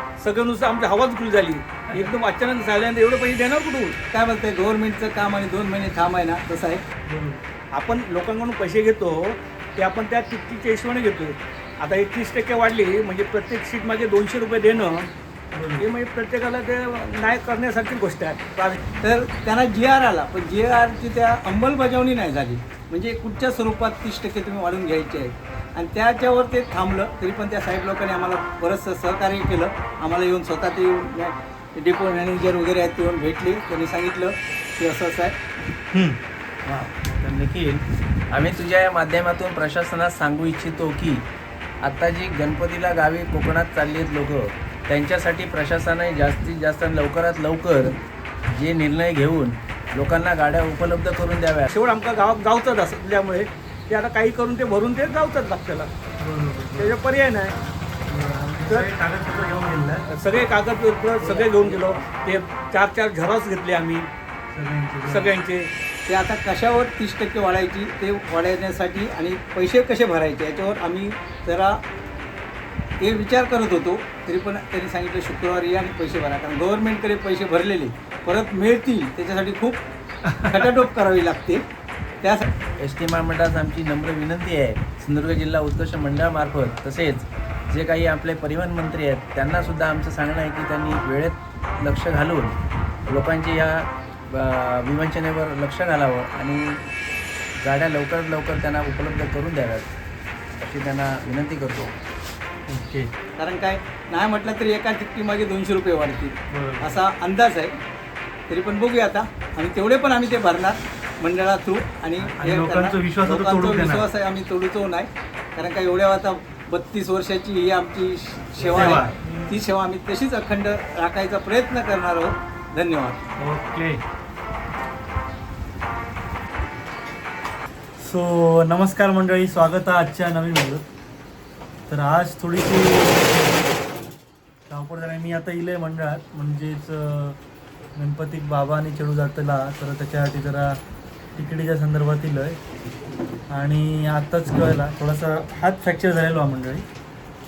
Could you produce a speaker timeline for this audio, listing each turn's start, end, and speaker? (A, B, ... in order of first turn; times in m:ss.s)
0:00.2-0:04.0 A
0:04.1-0:06.8 B
0:07.1-0:07.4 C
0:07.7-0:15.1 A
0:15.5-0:15.9 C
0:15.8-0:18.8 A
0:19.0-0:35.4 B
0:35.9-0:36.2 C
0:36.6-0:41.2 D
0:41.8-0:47.9 D
0:48.5-0:51.7 D
0:51.7-0:55.9 A
0:56.2-0:57.0 C
0:56.8-0:57.6 A
0:58.1-1:00.0 C
1:00.1-1:04.1 A
1:01.3-1:01.8 B
1:04.5-1:05.3 C
1:05.0-1:05.7 A
1:06.1-1:11.8 B
1:13.0-1:19.8 B
1:20.2-1:20.7 C
1:20.4-1:21.6 B
1:22.7-1:32.5 D
1:33.1-1:36.8 D
1:37.6-1:39.9 D
1:40.6-1:41.9 D
1:42.7-1:43.1 C
1:43.4-1:47.7 B
1:46.5-1:46.9 C
1:48.5-2:03.2 B
1:52.2-1:54.1 C
1:58.6-1:59.6 C
2:03.4-2:04.0 C
2:08.0-2:10.8 C
2:11.9-2:13.6 C
2:14.7-2:17.4 C
2:18.0-2:20.8 C
2:21.4-2:22.6 C
2:23.5-2:26.8 C